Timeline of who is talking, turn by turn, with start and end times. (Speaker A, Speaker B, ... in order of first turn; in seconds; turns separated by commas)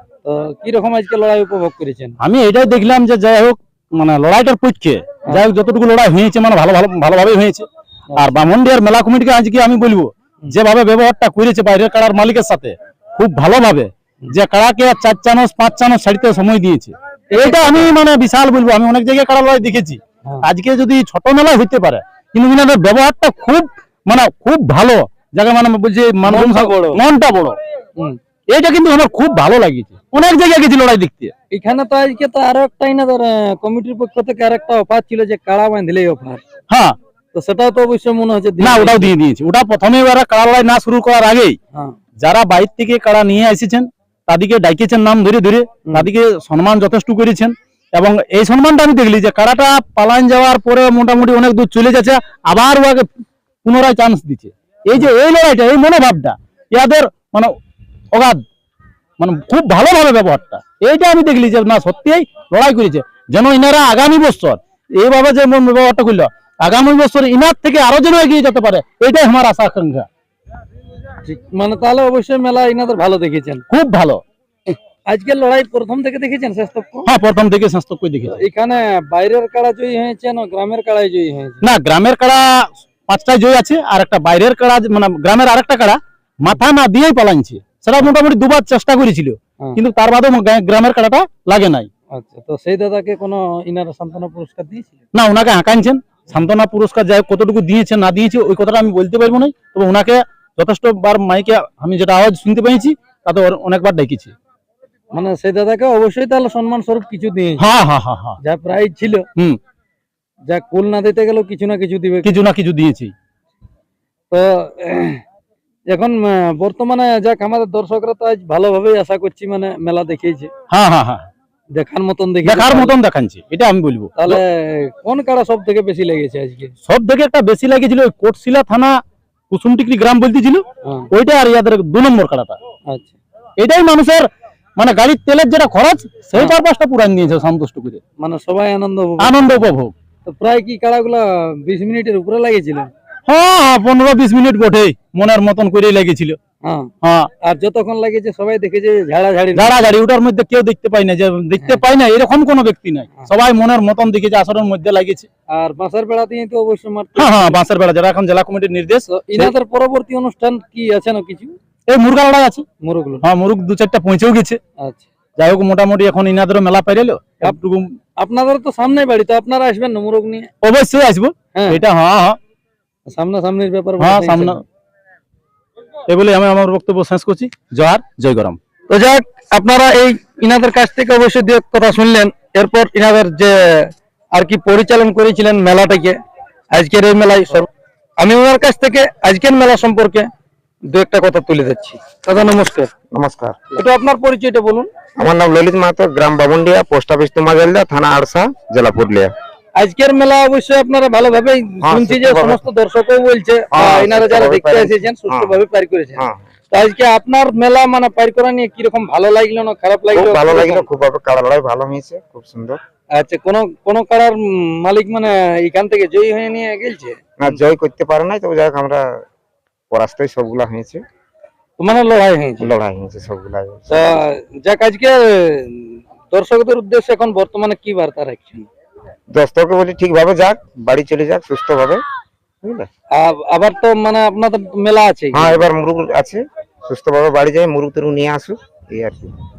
Speaker A: 0.2-2.1, Speaker B: 2.2-7.6, Speaker A: 8.1-8.4, Speaker B: 8.2-27.6, Speaker A: 17.3-17.9, Speaker A: 26.2-27.0, Speaker B: 28.5-31.3, Speaker A: 31.5-36.4, Speaker B: 36.7-37.0, Speaker A: 37.3-39.1, Speaker B: 38.6-41.6, Speaker B: 42.2-53.0, Speaker B: 53.6-57.5, Speaker B: 58.1-58.4, Speaker B: 59.2-70.1, Speaker A: 71.2-73.6, Speaker B: 73.7-74.2, Speaker A: 75.1-77.1, Speaker B: 77.0-78.4, Speaker A: 78.3-81.6, Speaker B: 81.6-91.9, Speaker A: 92.1-95.0, Speaker B: 95.1-104.3, Speaker A: 105.1-107.6, Speaker B: 107.6-108.4, Speaker A: 108.4-109.2, Speaker A: 110.5-112.4, Speaker B: 112.2-113.1, Speaker A: 114.3-115.2, Speaker A: 115.9-120.5, Speaker B: 120.7-121.2, Speaker A: 121.8-122.9, Speaker B: 122.4-124.4, Speaker A: 124.2-126.7, Speaker B: 126.9-128.9, Speaker B: 129.5-132.6, Speaker A: 130.8-131.1, Speaker A: 132.9-133.2, Speaker B: 133.6-138.0, Speaker A: 138.2-139.7, Speaker B: 139.2-139.9, Speaker A: 140.2-142.9, Speaker B: 143.3-146.4, Speaker A: 146.6-146.9, Speaker B: 147.0-147.3, Speaker A: 147.4-149.8, Speaker B: 149.5-155.3, Speaker A: 155.5-157.6, Speaker B: 157.2-159.5, Speaker A: 159.1-161.5, Speaker B: 161.9-162.7, Speaker A: 162.8-163.2, Speaker B: 163.2-164.6, Speaker A: 164.8-165.1, Speaker B: 165.4-167.9, Speaker A: 168.2-170.5, Speaker B: 170.6-172.4, Speaker A: 171.5-171.8, Speaker A: 173.1-174.6, Speaker B: 174.0-174.6, Speaker B: 176.1-178.6, Speaker A: 178.9-186.2, Speaker A: 186.7-187.7, Speaker A: 188.2-190.3, Speaker A: 190.9-192.9, Speaker C: 193.1-193.6, Speaker A: 193.7-194.9, Speaker C: 195.2-199.3, Speaker A: 199.8-210.9, Speaker C: 201.8-202.6, Speaker C: 203.7-205.6, Speaker C: 206.2-206.4, Speaker C: 210.1-212.8, Speaker A: 213.2-217.6, Speaker C: 217.4-219.1, Speaker C: 219.9-221.0, Speaker A: 221.8-222.7, Speaker C: 222.6-224.2, Speaker A: 223.9-228.7, Speaker C: 229.3-232.0, Speaker C: 232.6-232.9, Speaker A: 233.2-235.7, Speaker C: 235.3-239.3